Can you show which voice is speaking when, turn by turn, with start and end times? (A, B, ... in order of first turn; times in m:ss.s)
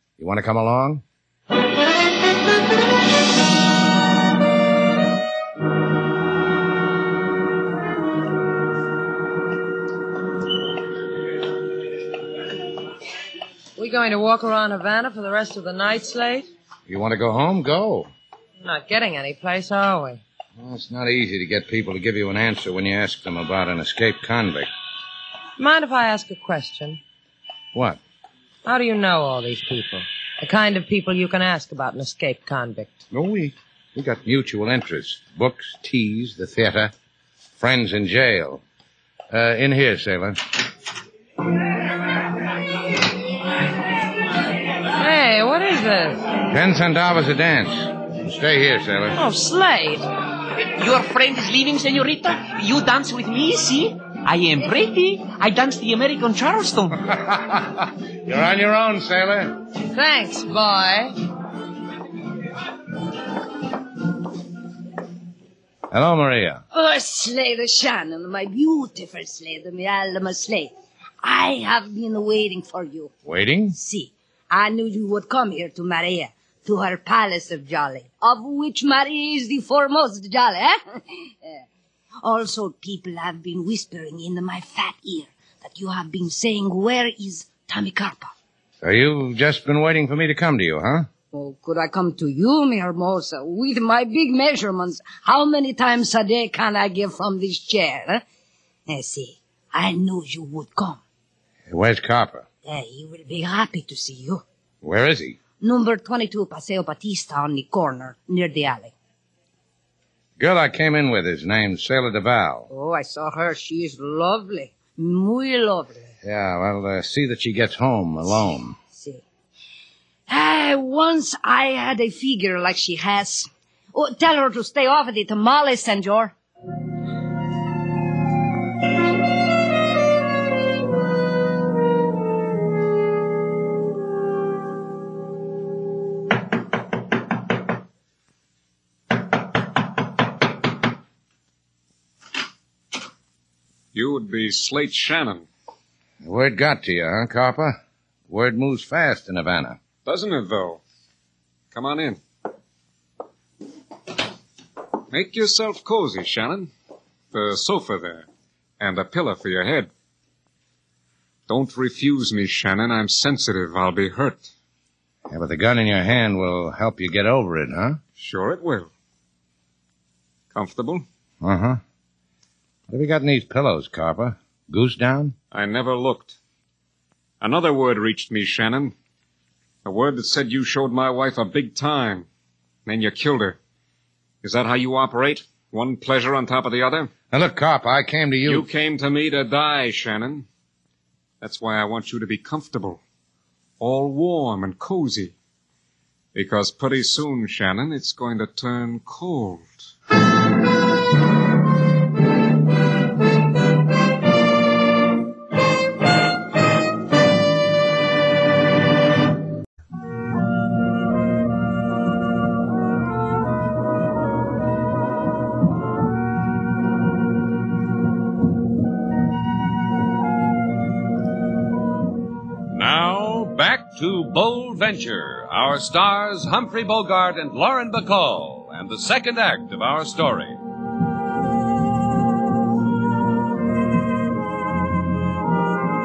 0:00.2-0:01.0 A
0:13.8-0:16.5 B
0:16.9-0:18.1 A
0:18.6-0:20.2 B
0:20.6-0:24.7 A
0:25.6-0:27.0 B
0:27.7-0:28.0 A
0:28.6-0:32.9 B
0:33.1-0:36.9 A
0:37.6-0:38.6 A
0:39.3-0:40.4 A
0:44.9-0:46.3 B
0:46.4-0:49.2 A
0:49.2-0:50.1 B
0:50.7-0:57.0 C
0:57.1-0:59.6 A
0:59.9-1:01.2 B
1:05.9-1:06.6 A
1:06.7-1:13.1 D
1:13.2-1:13.8 A
1:13.7-1:21.6 D
1:22.2-1:28.3 D
1:28.8-1:31.1 A
1:31.3-1:38.2 D
1:38.9-1:41.0 D
1:41.7-1:42.5 A
1:42.6-1:44.4 D
1:44.8-1:45.4 A
1:45.6-1:48.9 D
1:50.4-1:52.7 A
1:52.7-1:56.1 D
1:56.2-1:58.8 A
1:58.9-1:59.2 D
2:00.3-2:06.3 D
2:23.9-2:25.5 E
2:26.2-2:29.8 A
2:30.0-2:30.8 E
2:31.7-2:32.2 E
2:35.1-2:36.7 E
2:37.3-2:38.3 E
2:38.8-2:39.9 E
2:41.5-2:44.5 E
2:45.3-2:48.0 A
2:48.2-2:48.9 E
2:50.5-2:51.0 E
2:51.4-2:51.8 A
2:52.9-2:55.4 A
2:55.5-2:56.4 E
2:57.4-2:59.0 E
2:59.8-3:02.3 E
3:02.9-3:03.6 E
3:04.4-3:07.1 E
3:07.3-3:08.7 A
3:08.5-3:10.5 E
3:11.4-3:13.0 E
3:13.8-3:15.3 E
3:16.3-3:19.7 E
3:42.7-3:50.6 F